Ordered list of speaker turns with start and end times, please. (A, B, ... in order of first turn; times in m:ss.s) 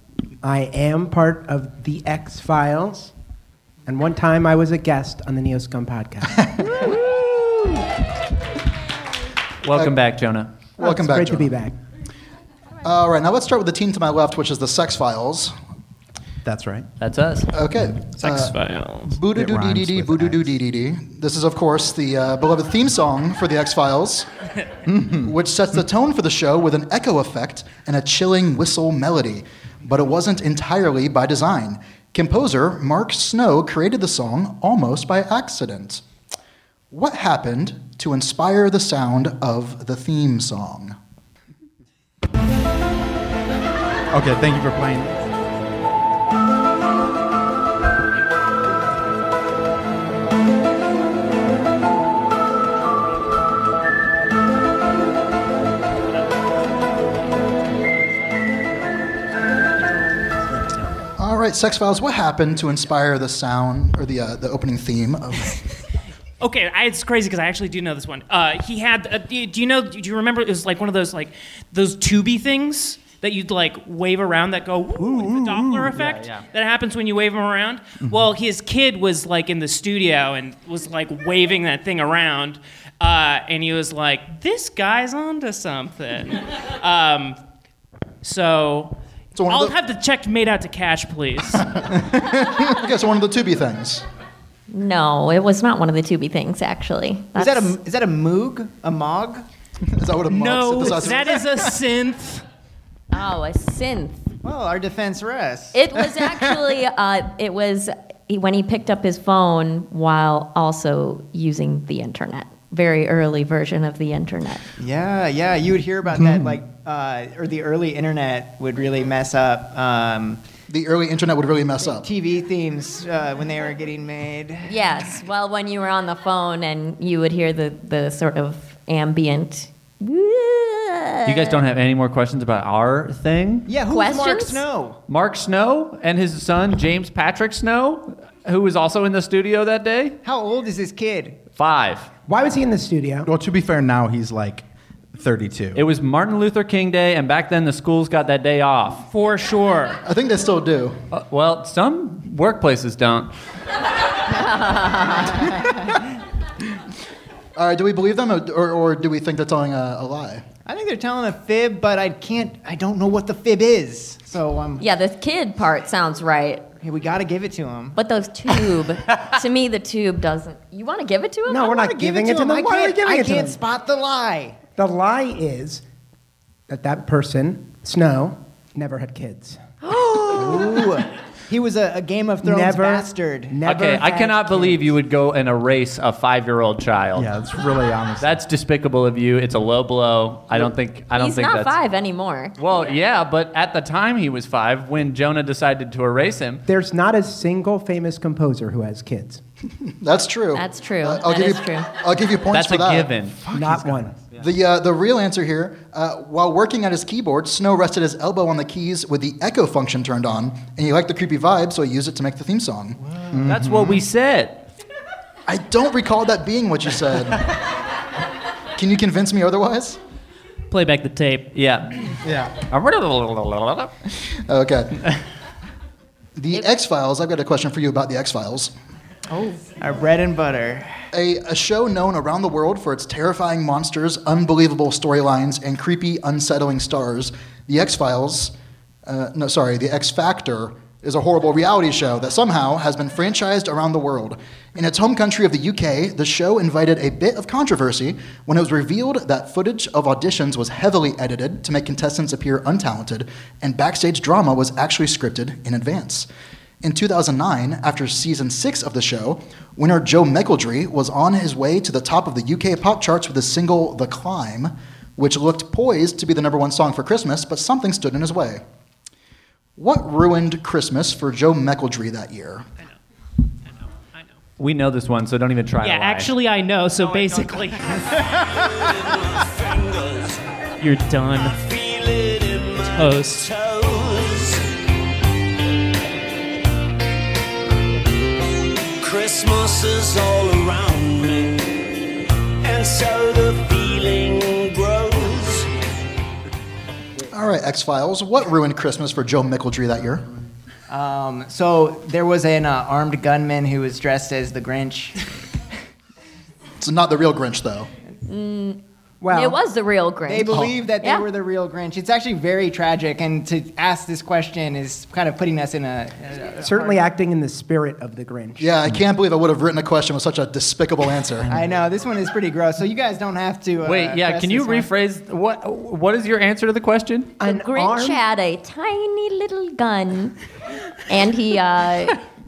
0:00.4-0:03.1 A
0:03.9-0:07.0 A
0:09.6-0:10.5 B
0:10.8-0:11.6 C
0:10.8-0:11.8 A
0:12.8-0:15.5 C
0:16.4-0:16.9 D
0:17.0-0:17.5 B
0:17.5-0:18.6 C
0:18.2-0:19.2 E
0:19.1-0:24.3 C
0:19.3-0:20.4 D
0:24.9-0:25.3 D
0:25.1-0:36.0 C
0:36.9-0:41.0 C
0:44.1-0:45.2 D
1:01.2-1:05.6 C
1:06.4-1:27.4 E
1:15.0-1:15.9 D
1:16.0-1:16.5 B
1:28.2-1:31.7 E
1:29.3-1:29.8 C
1:32.2-1:34.0 C
1:34.7-1:37.8 F
1:37.4-1:39.4 G
1:39.8-1:41.5 C
1:40.3-1:42.4 E
1:43.1-1:44.3 F
1:44.4-1:45.8 G
1:45.7-1:54.7 F
1:54.8-2:00.4 G
1:56.2-1:56.6 D
2:00.7-2:02.1 C
2:01.8-2:04.7 G
2:04.7-2:11.6 F
2:11.2-2:13.7 B
2:13.7-2:15.0 G
2:13.9-2:14.6 F
2:15.1-2:20.2 B
2:20.2-2:21.4 G
2:21.6-2:22.1 B
2:22.3-2:23.3 A
2:23.3-2:25.8 D
2:25.8-2:29.1 B
2:29.1-2:30.0 E
2:30.0-2:31.0 C
2:31.1-2:33.3 B
2:34.4-2:35.5 F
2:37.6-2:40.4 C
2:40.7-2:44.8 G
2:44.8-2:46.7 F
2:46.8-2:48.0 G
2:48.0-2:51.8 F
2:51.5-2:53.6 A
2:51.6-2:54.6 G
2:54.8-2:55.8 A
2:56.7-2:59.6 A
2:59.8-3:00.8 F
3:00.3-3:03.6 G
3:02.4-3:04.8 A
3:03.6-3:07.3 B
3:07.2-3:08.3 D
3:08.2-3:11.7 B
3:11.2-3:12.6 F
3:12.6-3:16.6 B
3:16.7-3:19.4 A
3:20.0-3:23.1 C
3:20.5-3:21.9 F
3:22.5-3:23.5 B
3:23.5-3:24.1 D
3:23.5-3:24.2 A
3:24.4-3:33.0 C
3:33.3-3:34.0 D
3:33.4-3:34.7 B
3:35.5-3:37.6 C
3:38.8-3:40.0 C
3:40.7-3:41.5 E
3:41.5-3:43.9 B
3:42.2-3:42.6 D
3:44.3-3:45.0 C
3:46.4-3:48.7 C
3:49.3-3:49.6 F
3:49.8-3:50.9 G
3:51.1-3:58.5 C
3:59.0-4:16.3 C
4:16.8-4:28.6 C
4:29.8-4:32.7 C
4:34.6-4:36.4 B
4:35.8-4:38.2 E
4:38.5-4:40.4 H
4:40.8-4:41.6 E
4:41.6-4:44.7 H
4:42.9-4:43.5 E
4:49.0-4:52.0 H
4:52.6-4:55.7 H
4:57.3-5:00.3 C
5:00.9-5:05.2 G
5:06.8-5:07.9 C
5:08.3-5:11.2 F
5:09.2-5:09.6 A
5:10.3-5:17.1 G
5:16.6-5:18.7 A
5:18.6-5:21.5 C
5:21.5-5:24.9 G
5:23.8-5:27.4 B
5:27.4-5:28.2 A
5:27.4-5:30.4 F
5:31.1-5:32.2 F